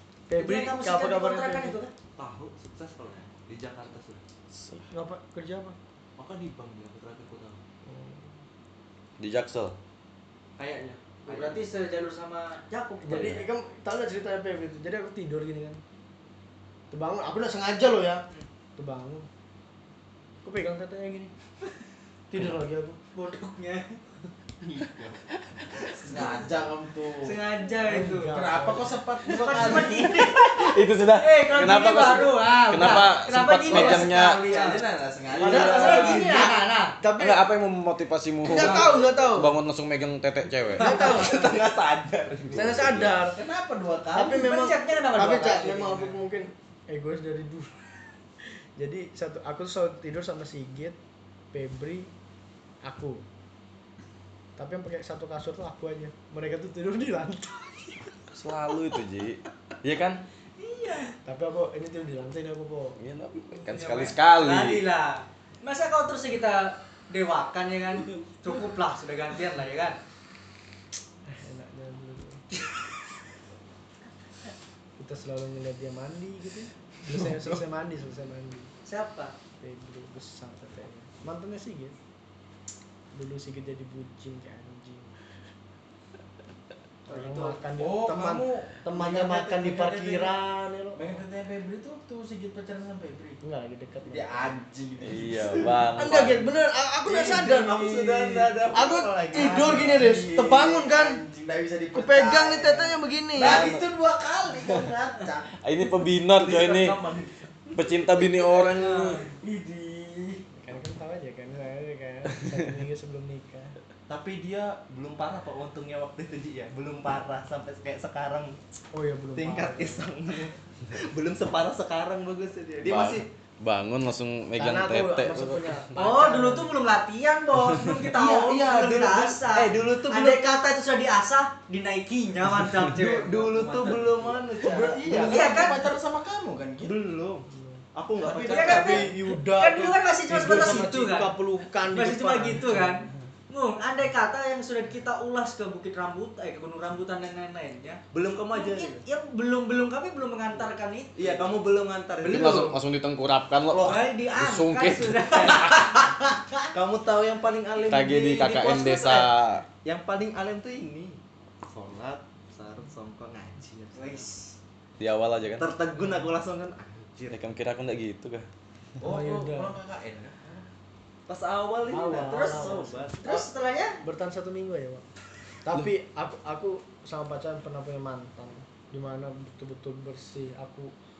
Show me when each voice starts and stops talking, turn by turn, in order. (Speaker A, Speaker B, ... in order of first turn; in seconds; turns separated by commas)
Speaker A: 0.3-1.8, Speaker B: 0.3-1.9, Speaker C: 2.2-4.2, Speaker D: 4.5-4.9, Speaker A: 4.9-5.8, Speaker C: 6.2-7.6, Speaker A: 7.8-8.4, Speaker D: 9.2-9.8, Speaker C: 10.6-11.6, Speaker B: 11.3-13.5, Speaker A: 13.0-15.8, Speaker A: 16.9-18.2, Speaker A: 18.8-19.3, Speaker A: 20.4-21.3, Speaker A: 22.3-23.0, Speaker B: 23.1-24.0, Speaker C: 24.6-25.2, Speaker C: 25.9-26.4, Speaker E: 26.1-27.4, Speaker B: 27.1-28.4, Speaker A: 27.8-29.0, Speaker E: 28.2-30.2, Speaker B: 29.3-34.8, Speaker D: 29.5-34.4, Speaker E: 33.7-36.5, Speaker C: 34.5-34.8, Speaker D: 35.3-36.2, Speaker C: 35.4-36.5, Speaker B: 35.4-37.0, Speaker A: 35.4-37.4, Speaker D: 37.2-41.1, Speaker A: 38.5-39.6, Speaker B: 38.6-39.0, Speaker A: 40.8-41.5, Speaker B: 40.8-41.5, Speaker C: 40.8-43.1, Speaker D: 42.5-43.0, Speaker A: 42.5-43.4, Speaker E: 43.3-44.3, Speaker A: 44.1-47.8, Speaker B: 44.2-46.2, Speaker A: 48.5-51.0, Speaker A: 51.5-52.1, Speaker A: 52.8-53.2, Speaker A: 54.6-58.1, Speaker D: 58.3-60.2, Speaker B: 60.6-61.2, Speaker A: 61.3-63.0, Speaker D: 63.0-64.8, Speaker B: 63.6-70.0, Speaker A: 71.3-72.4, Speaker A: 75.0-78.7, Speaker B: 78.8-79.3, Speaker A: 79.6-82.0, Speaker A: 83.1-85.2, Speaker A: 87.1-91.2, Speaker B: 87.1-87.7, Speaker E: 87.7-90.3, Speaker E: 90.9-93.4, Speaker A: 93.4-94.6, Speaker E: 94.1-95.9, Speaker D: 95.0-96.4, Speaker A: 96.0-101.2, Speaker C: 97.1-100.3, Speaker E: 97.9-98.5, Speaker E: 99.1-105.5, Speaker A: 101.9-103.7, Speaker D: 103.4-103.8, Speaker C: 103.5-103.8, Speaker D: 105.6-107.0, Speaker C: 106.4-107.4, Speaker D: 107.8-109.3, Speaker B: 108.7-109.4, Speaker A: 110.5-113.8, Speaker C: 114.1-118.6, Speaker A: 118.9-120.1, Speaker C: 119.4-123.3, Speaker D: 122.8-125.8, Speaker A: 124.6-126.8, Speaker B: 126.0-134.2, Speaker C: 128.1-130.5, Speaker C: 132.9-135.5, Speaker E: 134.6-137.0, Speaker B: 135.1-136.0, Speaker C: 136.8-139.2, Speaker E: 138.2-139.0, Speaker B: 138.4-148.0, Speaker A: 138.5-143.0, Speaker C: 148.1-149.1, Speaker B: 148.5-151.5, Speaker C: 151.2-152.8, Speaker D: 152.2-155.6, Speaker B: 152.3-152.7, Speaker C: 153.7-154.0, Speaker B: 153.8-156.7, Speaker C: 155.4-155.8, Speaker C: 156.7-159.3, Speaker D: 157.8-159.7, Speaker C: 159.8-164.3, Speaker B: 163.9-164.6, Speaker D: 165.0-165.7, Speaker C: 165.6-167.4, Speaker D: 167.3-168.5, Speaker A: 169.0-169.8, Speaker E: 169.0-170.7, Speaker C: 171.3-173.2, Speaker A: 171.9-173.5, Speaker B: 172.1-174.0, Speaker A: 174.0-175.1, Speaker A: 175.6-180.9